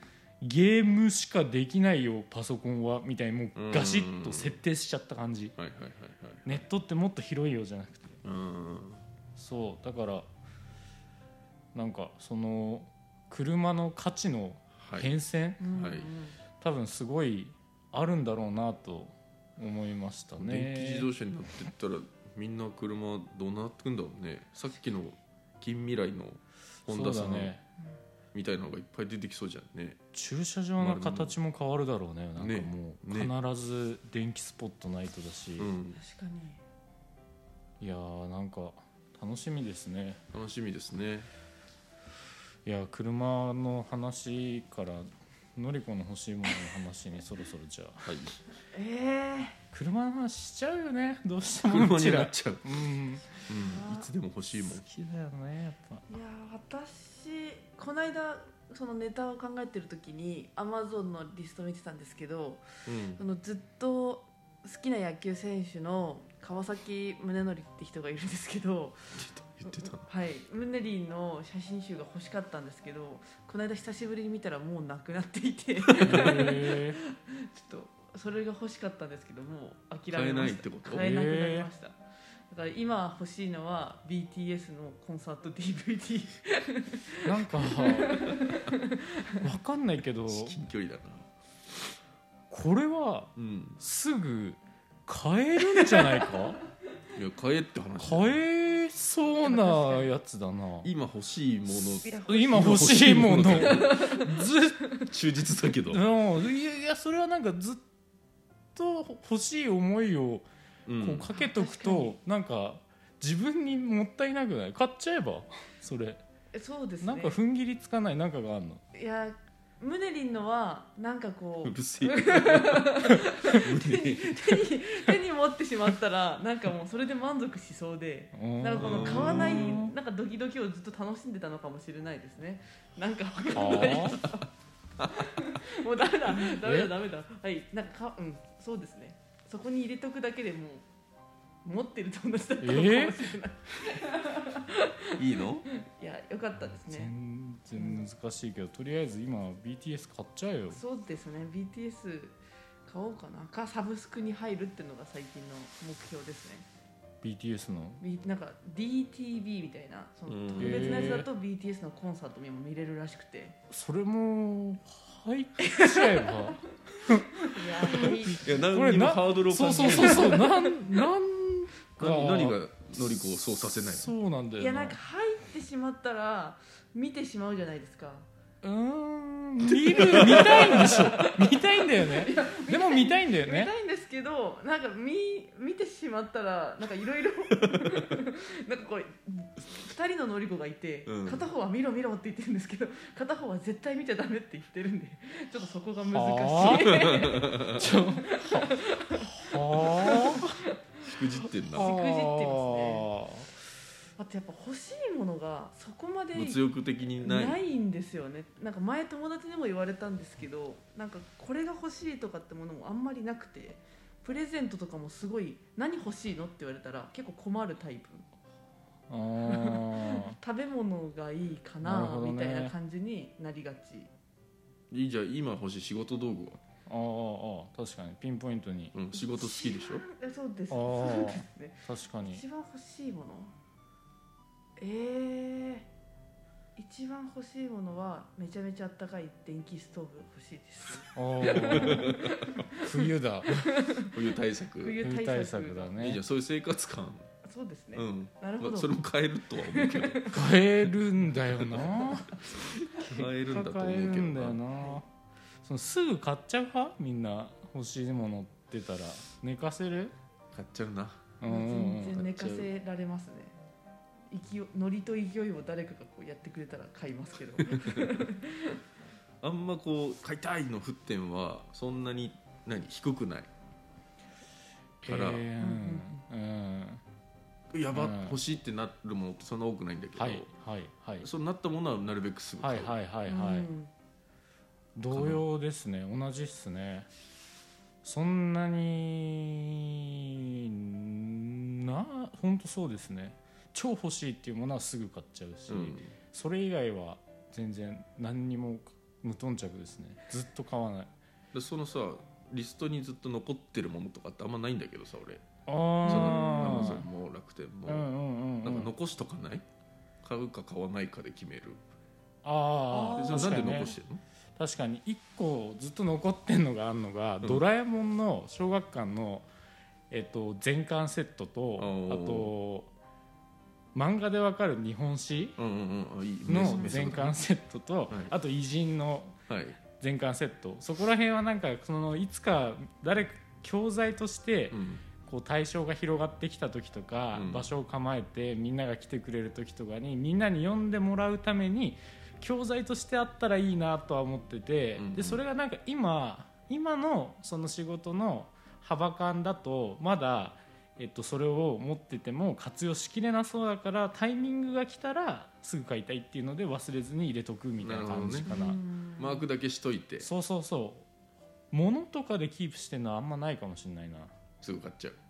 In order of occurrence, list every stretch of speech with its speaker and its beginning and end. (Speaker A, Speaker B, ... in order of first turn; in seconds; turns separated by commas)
Speaker A: 0.4-5.5, Speaker B: 3.5-4.6, Speaker B: 5.6-6.6, Speaker A: 6.4-8.2, Speaker B: 8.2-9.0, Speaker A: 9.3-10.3, Speaker A: 11.7-15.8, Speaker B: 14.8-15.1, Speaker C: 15.6-16.4, Speaker B: 15.7-16.1, Speaker A: 16.6-21.1, Speaker B: 20.4-27.5, Speaker A: 26.9-27.6, Speaker B: 28.3-30.0, Speaker A: 30.1-35.7, Speaker B: 30.8-31.4, Speaker B: 32.4-33.3, Speaker B: 35.6-36.0, Speaker C: 35.9-36.6, Speaker A: 37.8-40.2, Speaker B: 40.3-41.3, Speaker A: 42.6-48.1, Speaker B: 48.0-48.4, Speaker C: 48.7-49.6, Speaker A: 49.7-53.3, Speaker B: 51.6-52.6, Speaker B: 53.5-54.8, Speaker C: 53.5-54.1, Speaker A: 54.6-56.1, Speaker C: 56.1-62.6, Speaker B: 62.9-63.2, Speaker C: 63.1-82.0, Speaker B: 69.1-70.0, Speaker B: 76.0-76.4, Speaker A: 76.0-77.0, Speaker B: 80.1-81.1, Speaker A: 80.9-81.7, Speaker C: 82.5-89.3, Speaker A: 87.2-88.3, Speaker A: 89.4-90.6, Speaker B: 90.3-91.3, Speaker A: 92.5-96.6, Speaker B: 93.3-93.8, Speaker C: 95.8-96.3, Speaker B: 97.1-98.4, Speaker A: 98.0-100.9, Speaker C: 99.4-100.1, Speaker B: 100.8-104.1, Speaker A: 101.9-104.8, Speaker C: 102.0-102.6, Speaker C: 103.4-105.0, Speaker B: 105.0-106.0, Speaker A: 105.9-107.8, Speaker A: 108.7-110.5, Speaker B: 110.8-111.3, Speaker A: 111.0-116.2, Speaker C: 111.3-112.2, Speaker C: 116.5-117.4, Speaker A: 117.0-118.8, Speaker C: 118.9-134.5, Speaker B: 121.6-124.4, Speaker A: 128.3-129.9, Speaker B: 128.8-129.8, Speaker A: 133.5-134.2, Speaker C: 135.1-140.8, Speaker A: 136.5-136.9, Speaker C: 141.6-147.1, Speaker A: 142.6-143.2, Speaker B: 145.2-145.7, Speaker A: 146.8-150.8, Speaker C: 147.7-148.0, Speaker C: 150.7-156.6, Speaker A: 157.2-158.0, Speaker C: 158.0-163.6, Speaker B: 160.3-161.2, Speaker A: 160.6-161.3, Speaker A: 163.7-172.6, Speaker C: 165.6-166.6, Speaker C: 167.3-168.6, Speaker B: 168.0-170.5, Speaker C: 169.7-171.0, Speaker B: 172.0-174.1, Speaker A: 173.7-175.0, Speaker C: 174.6-178.3, Speaker A: 178.6-183.7, Speaker B: 179.7-181.1, Speaker C: 180.0-200.7, Speaker B: 191.1-191.4, Speaker A: 196.1-197.2, Speaker B: 196.6-197.8, Speaker A: 197.7-200.6, Speaker B: 201.0-201.9, Speaker A: 201.7-203.5, Speaker C: 201.7-203.1, Speaker C: 204.2-218.3, Speaker B: 206.3-207.6, Speaker A: 219.1-220.4, Speaker C: 219.4-224.1, Speaker A: 221.8-222.7, Speaker B: 224.9-226.6, Speaker A: 226.9-228.9, Speaker B: 228.9-230.0, Speaker C: 229.1-233.5, Speaker A: 230.7-232.4, Speaker C: 234.8-235.9, Speaker C: 236.8-244.1, Speaker A: 241.1-242.2, Speaker B: 241.7-242.3, Speaker A: 242.7-243.8, Speaker B: 244.1-245.0, Speaker C: 244.8-246.0, Speaker A: 245.0-246.2, Speaker B: 246.0-247.3, Speaker C: 247.4-248.9, Speaker B: 247.9-250.7, Speaker C: 249.6-250.4, Speaker A: 250.3-252.3, Speaker B: 251.3-254.6, Speaker A: 253.0-255.1, Speaker A: 255.6-260.1, Speaker B: 260.5-261.2, Speaker A: 261.4-262.2, Speaker C: 261.4-263.5, Speaker B: 262.1-262.7, Speaker C: 264.3-268.8, Speaker B: 267.6-268.1, Speaker B: 269.4-273.5, Speaker A: 275.0-277.0, Speaker B: 275.0-275.5, Speaker C: 275.6-276.1, Speaker B: 277.7-280.5, Speaker A: 277.9-278.4, Speaker A: 280.1-281.3, Speaker B: 281.2-282.9, Speaker A: 282.6-283.7, Speaker C: 283.2-283.9, Speaker A: 284.9-287.1, Speaker B: 285.1-285.4, Speaker A: 288.0-301.1, Speaker B: 295.7-296.1, Speaker B: 301.5-305.4, Speaker A: 305.7-307.0, Speaker C: 306.0-307.0, Speaker B: 306.1-308.1, Speaker A: 307.9-308.9, Speaker B: 308.6-309.6, Speaker B: 310.2-311.8, Speaker A: 312.4-314.0, Speaker C: 312.9-313.8, Speaker B: 313.1-314.2, Speaker A: 314.6-319.5, Speaker A: 320.1-322.9, Speaker B: 321.8-322.5, Speaker A: 323.9-325.6, Speaker B: 325.6-327.4, Speaker A: 326.4-329.4, Speaker C: 326.7-327.0, Speaker B: 329.5-329.8, Speaker A: 329.9-358.8, Speaker B: 334.7-335.0, Speaker B: 337.3-337.7, Speaker B: 344.9-345.4, Speaker B: 357.8-358.6, Speaker C: 358.4-359.4, Speaker B: 359.2-360.3, Speaker A: 360.2-361.1, Speaker A: 361.7-364.3, Speaker B: 364.6-365.2